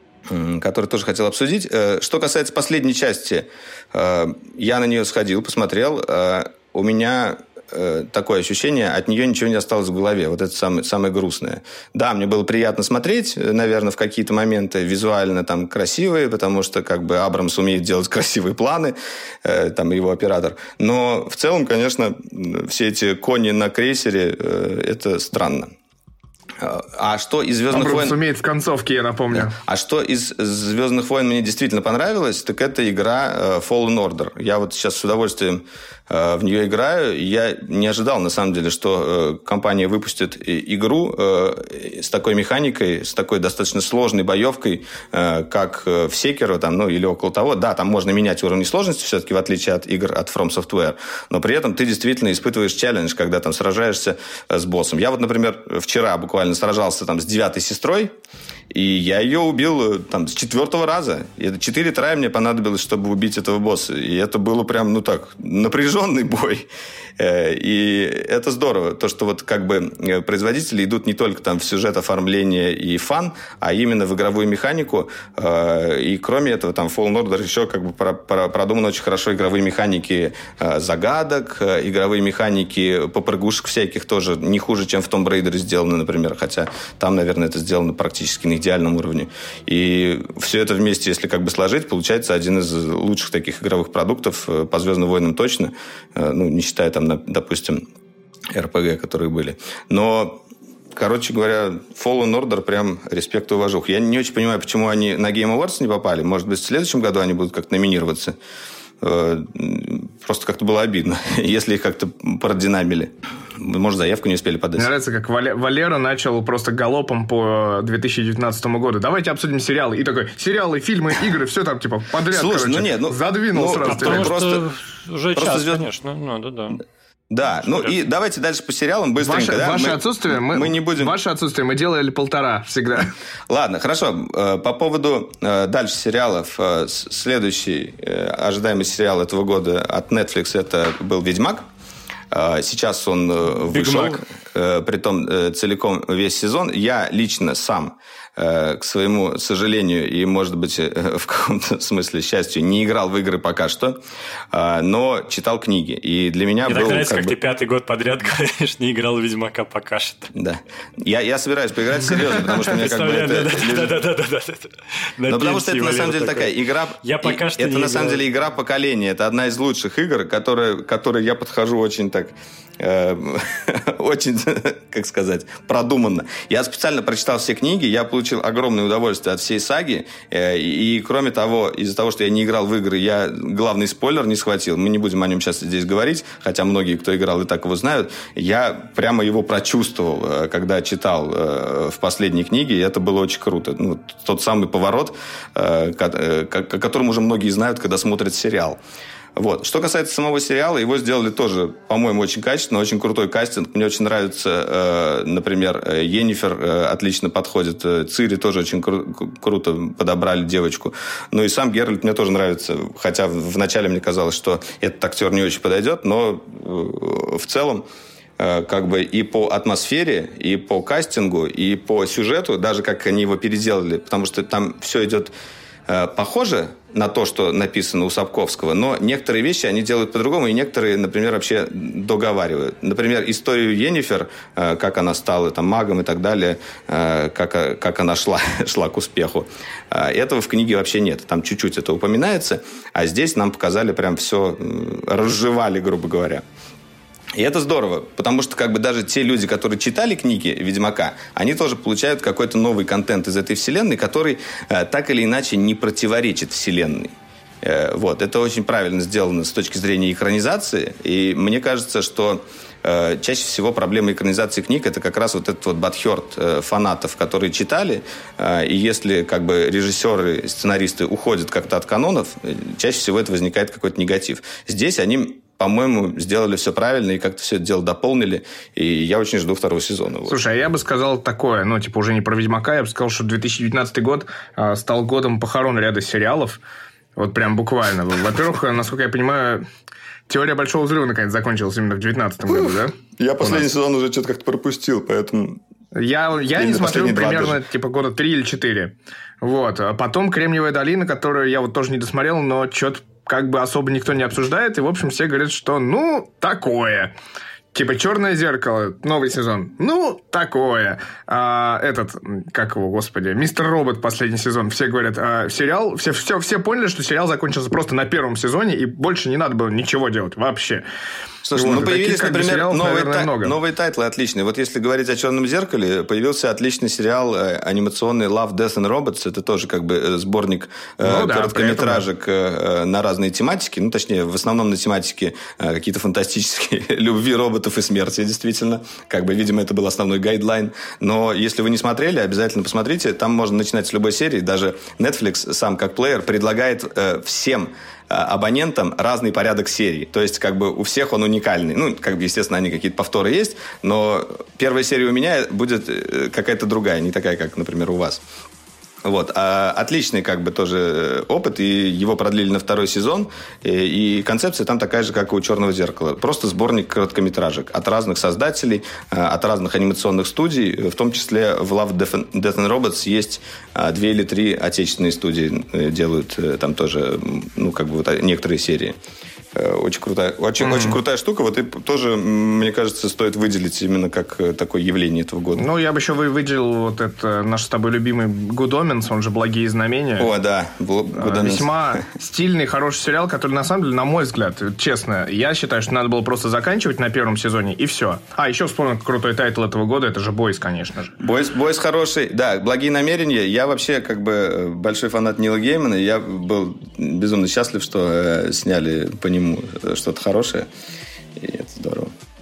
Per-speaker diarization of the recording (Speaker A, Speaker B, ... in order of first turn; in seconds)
Speaker A: 0.3-25.7, 26.6-28.2, 29.3-58.1, 58.7-97.8, 98.5-100.4, 100.9-108.4, 109.0-114.9, 122.3-124.7, 125.4-125.9, 127.3-131.2, 133.5-141.7, 142.3-154.0, 154.5-157.4, 160.3-163.9, 165.3-198.8, 199.4-217.9, 218.4-225.3, 225.9-246.4, 247.3-280.4, 292.5-295.6, 296.6-297.6, 321.4-358.2, 359.0-378.9, 379.5-385.6, 390.2-391.7, 401.2-410.7, 411.4-412.1
Speaker B: 27.7-29.6, 114.8-124.3, 129.2-133.1, 280.3-286.6, 287.1-289.6, 290.3-293.6, 295.9-307.1, 307.7-320.8, 321.6-323.6, 331.0-332.1, 380.6-381.0, 385.6-390.3, 391.1-401.2
Speaker C: 123.8-126.8, 127.6-128.0, 143.6-144.2, 156.7-160.3, 162.1-168.2